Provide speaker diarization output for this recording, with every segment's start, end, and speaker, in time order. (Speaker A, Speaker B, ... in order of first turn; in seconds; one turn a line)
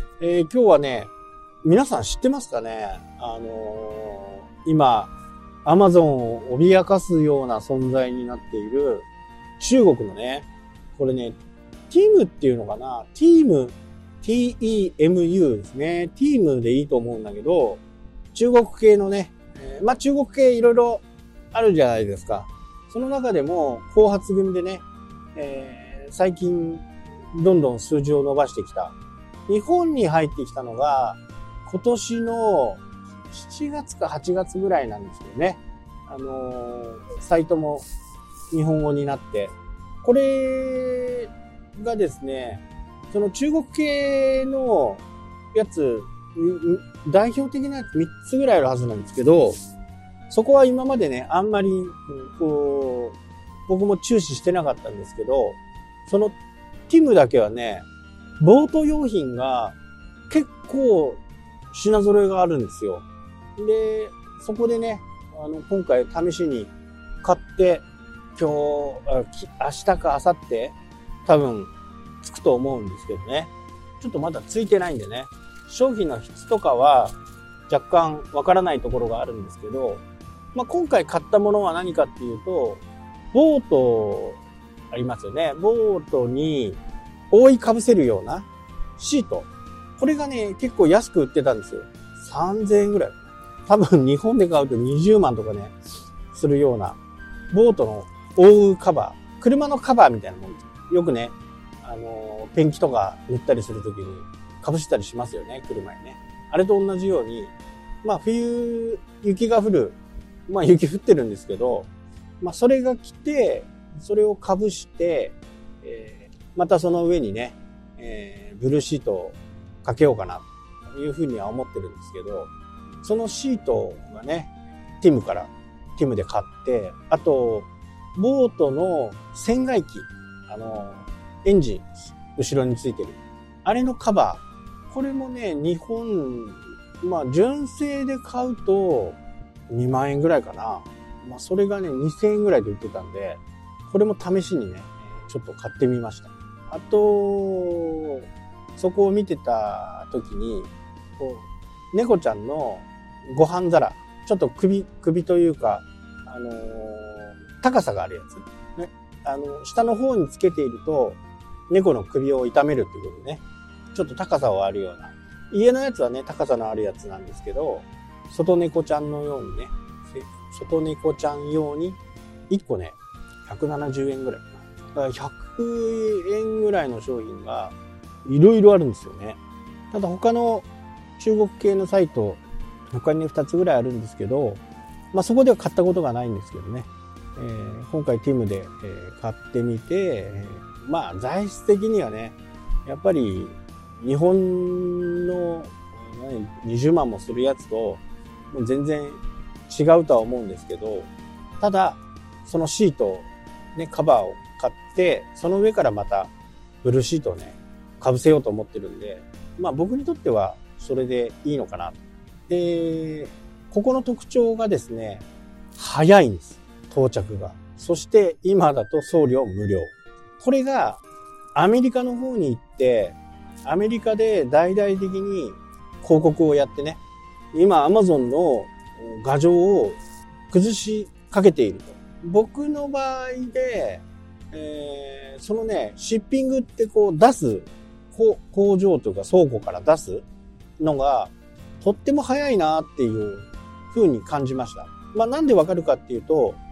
Speaker A: 0.2-1.1
Speaker A: 1.6-5.1
Speaker A: 5.6-9.1
Speaker A: 9.6-11.4
Speaker A: 11.9-17.8
Speaker A: 18.3-24.8
Speaker A: 25.4-28.9
Speaker A: 29.5-37.8
Speaker A: 38.5-45.0
Speaker A: 45.5-49.6
Speaker A: 50.3-56.4
Speaker A: 56.9-57.9
Speaker A: 58.4-59.8
Speaker A: 60.3-61.2
Speaker A: 61.7-63.0
Speaker A: 63.6-66.7
Speaker A: 67.2-67.8
Speaker A: 68.4-71.7
Speaker A: 72.2-77.1
Speaker A: 77.7-80.0
Speaker A: 80.5-82.8
Speaker A: 83.3-84.4
Speaker A: 84.9-86.8
Speaker A: 87.3-95.7
Speaker A: 96.3-97.0
Speaker A: 97.5-111.9
Speaker A: 112.4-122.5
Speaker A: 123.0-139.2
Speaker A: 139.7-161.2
Speaker A: 161.7-163.4
Speaker A: 163.9-172.0
Speaker A: 172.5-179.4
Speaker A: 179.9-180.7
Speaker A: 181.2-184.6
Speaker A: 185.1-201.1
Speaker A: 201.6-206.3
Speaker A: 206.8-215.2
Speaker A: 215.8-221.0
Speaker A: 221.6-227.0
Speaker A: 227.5-230.0
Speaker A: 230.5-240.2
Speaker A: 240.8-246.6